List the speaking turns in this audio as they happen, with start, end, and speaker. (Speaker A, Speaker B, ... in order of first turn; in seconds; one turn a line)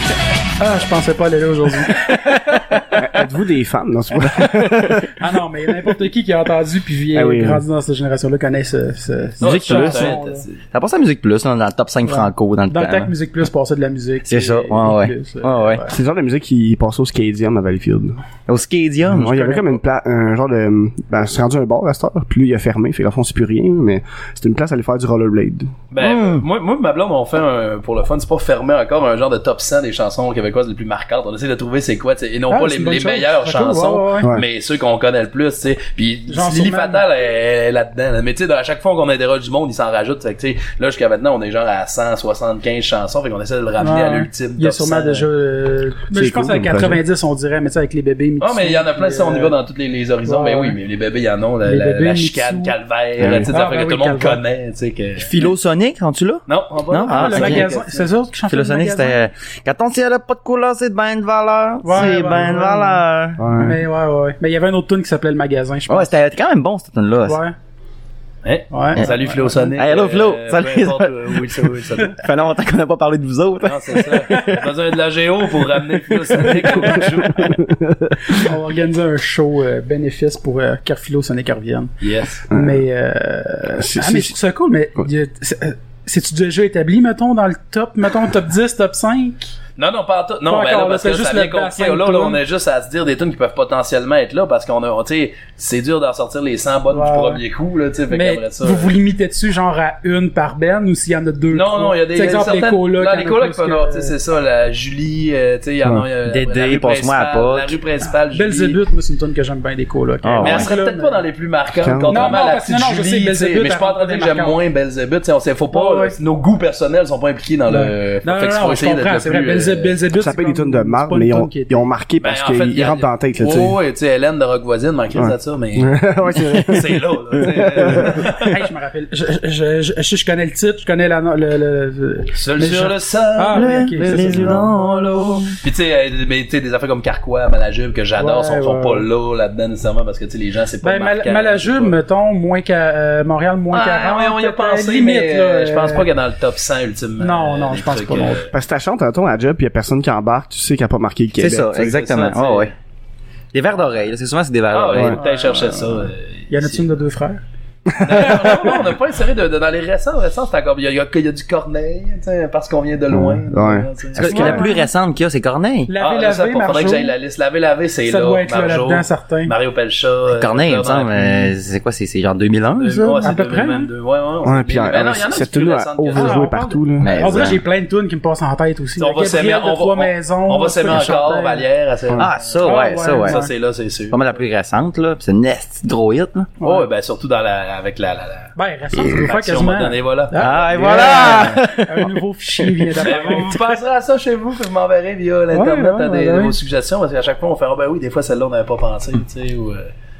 Speaker A: 0.6-2.8
Speaker B: 1.9-2.6
Speaker C: 2.9-5.1
Speaker B: 4.4-4.6
Speaker A: 5.1-10.4
Speaker C: 7.1-7.6
Speaker D: 9.4-10.6
Speaker B: 9.4-10.2
Speaker B: 10.7-13.1
Speaker A: 12.0-15.9
Speaker B: 14.2-15.8
Speaker C: 15.9-18.2
Speaker B: 18.5-19.6
Speaker C: 19.1-25.7
Speaker D: 25.9-45.3
Speaker B: 26.0-26.4
Speaker A: 32.5-34.3
Speaker A: 36.3-37.0
Speaker A: 43.8-49.5
Speaker C: 46.1-47.0
Speaker D: 48.4-55.5
Speaker A: 50.2-50.8
Speaker A: 51.6-52.7
Speaker C: 53.2-53.5
Speaker A: 53.5-54.4
Speaker B: 55.2-57.7
Speaker D: 56.5-58.1
Speaker A: 57.1-59.2
Speaker B: 58.5-63.4
Speaker A: 61.8-63.0
Speaker C: 63.4-63.8
Speaker A: 63.6-66.1
Speaker B: 65.9-67.4
Speaker A: 67.2-67.5
Speaker D: 68.4-72.2
Speaker A: 68.7-69.7
Speaker B: 69.7-74.7
Speaker D: 73.6-77.5
Speaker B: 76.0-77.0
Speaker C: 77.4-78.4
Speaker A: 78.4-81.9
Speaker D: 82.0-82.4
Speaker C: 82.5-82.8
Speaker A: 82.5-89.5
Speaker C: 83.7-84.3
Speaker D: 89.8-98.9
Speaker A: 90.5-92.4
Speaker A: 96.9-97.4
Speaker A: 98.1-104.1
Speaker D: 101.5-108.8
Speaker B: 106.2-107.7
Speaker A: 108.3-111.2
Speaker B: 110.2-110.7
Speaker D: 110.4-119.9
Speaker C: 111.8-112.4
Speaker A: 112.1-114.5
Speaker A: 115.7-116.1
Speaker A: 117.7-121.9
Speaker C: 120.2-123.8
Speaker D: 122.2-126.0
Speaker C: 125.1-128.3
Speaker D: 126.6-128.6
Speaker A: 128.3-134.5
Speaker D: 132.3-134.7
Speaker B: 133.5-135.6
Speaker C: 134.1-134.7
Speaker D: 135.6-141.9
Speaker A: 138.2-139.1
Speaker A: 140.8-146.1
Speaker D: 143.7-148.5
Speaker A: 147.2-148.4
Speaker C: 148.4-151.9
Speaker B: 151.4-152.7
Speaker D: 151.7-152.7
Speaker B: 153.5-155.2
Speaker D: 154.7-156.9
Speaker A: 155.1-157.4
Speaker C: 158.0-158.4
Speaker D: 158.0-164.6
Speaker A: 158.2-158.8
Speaker C: 163.1-164.6
Speaker B: 164.2-165.9
Speaker A: 164.2-164.9
Speaker A: 165.9-167.1
Speaker D: 166.0-171.5
Speaker A: 168.1-169.5
Speaker B: 170.3-173.3
Speaker D: 172.8-176.4
Speaker A: 173.2-173.9
Speaker C: 174.4-177.3
Speaker A: 176.2-181.6
Speaker B: 177.0-177.6
Speaker D: 179.0-184.4
Speaker B: 182.2-183.4
Speaker A: 182.6-183.5
Speaker B: 184.1-186.5
Speaker A: 186.6-186.9
Speaker D: 186.6-191.6
Speaker A: 188.6-193.6
Speaker B: 190.4-192.1
Speaker B: 192.8-193.1
Speaker D: 193.0-199.9
Speaker A: 195.5-196.6